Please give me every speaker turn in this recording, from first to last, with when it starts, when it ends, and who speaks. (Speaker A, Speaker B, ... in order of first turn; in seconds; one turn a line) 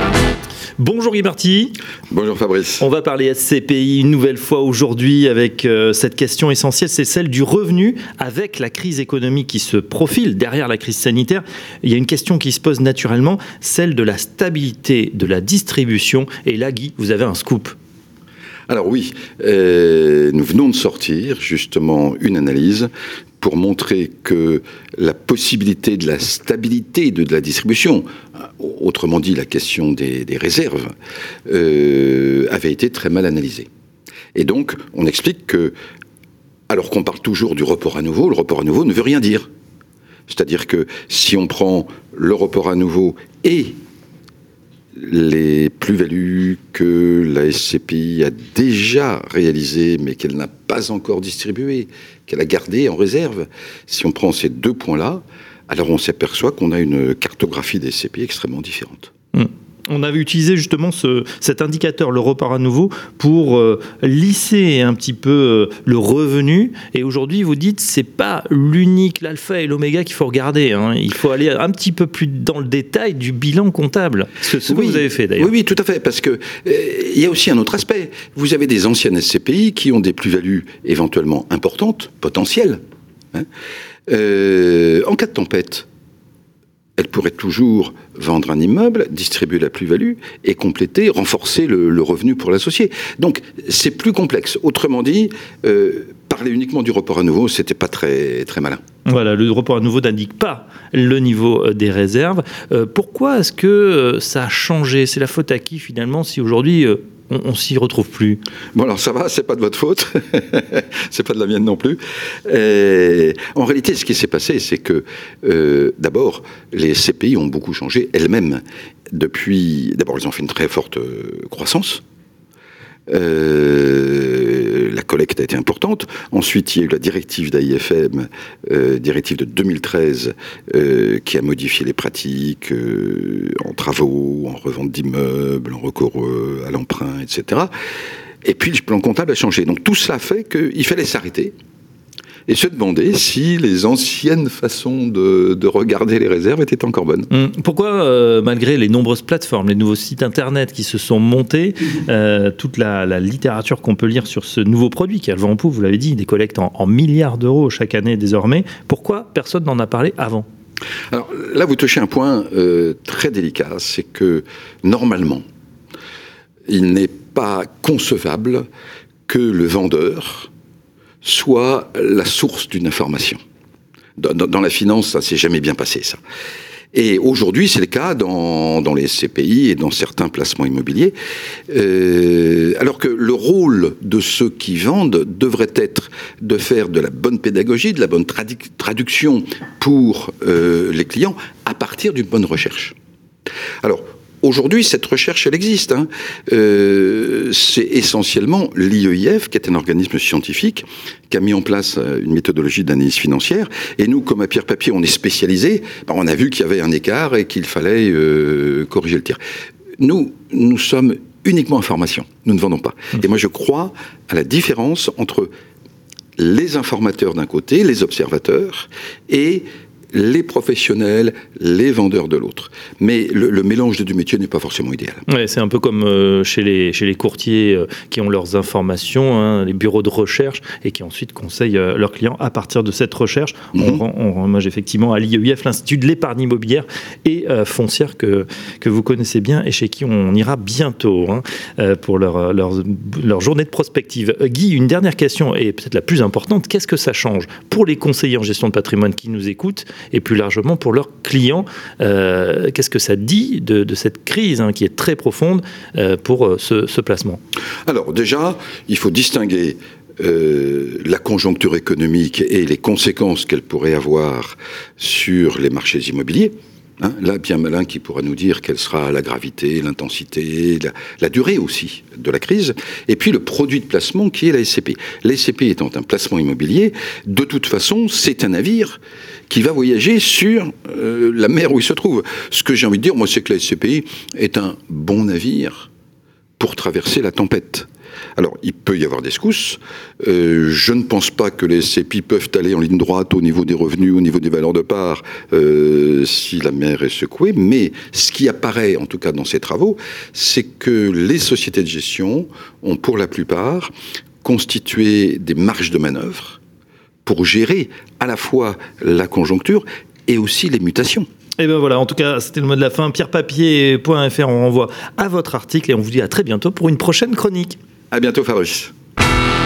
Speaker A: 0.8-1.8
Speaker B: 2.1-2.9
Speaker A: 2.8-17.8
Speaker B: 18.7-22.9
Speaker B: 23.4-30.9
Speaker B: 31.5-33.7
Speaker B: 34.4-35.8
Speaker B: 36.7-39.5
Speaker B: 40.3-43.8
Speaker B: 45.0-59.1
Speaker A: 59.3-75.5
Speaker B: 74.7-82.8
Speaker B: 84.1-85.9
Speaker B: 87.0-98.8
Speaker A: 99.1-108.4
Speaker B: 108.7-122.0
Speaker B: 123.1-137.7
Speaker B: 138.4-141.5
Speaker B: 142.5-147.3
Speaker A: 147.3-160.5
Speaker B: 161.1-165.4
Speaker B: 166.7-168.7
Speaker B: 169.3-170.5
Speaker B: 171.2-173.4
Speaker B: 174.2-176.2
Speaker B: 176.9-181.2
Speaker B: 181.7-192.9
Speaker B: 193.8-209.4
Speaker B: 210.0-215.5
Speaker B: 216.4-225.2
Speaker A: 225.3-257.4
Speaker B: 233.8-234.0
Speaker B: 257.9-285.9
Speaker B: 286.6-303.9
Speaker B: 304.4-306.6
Speaker B: 307.2-311.3
Speaker A: 311.6-317.8
Speaker B: 318.1-318.9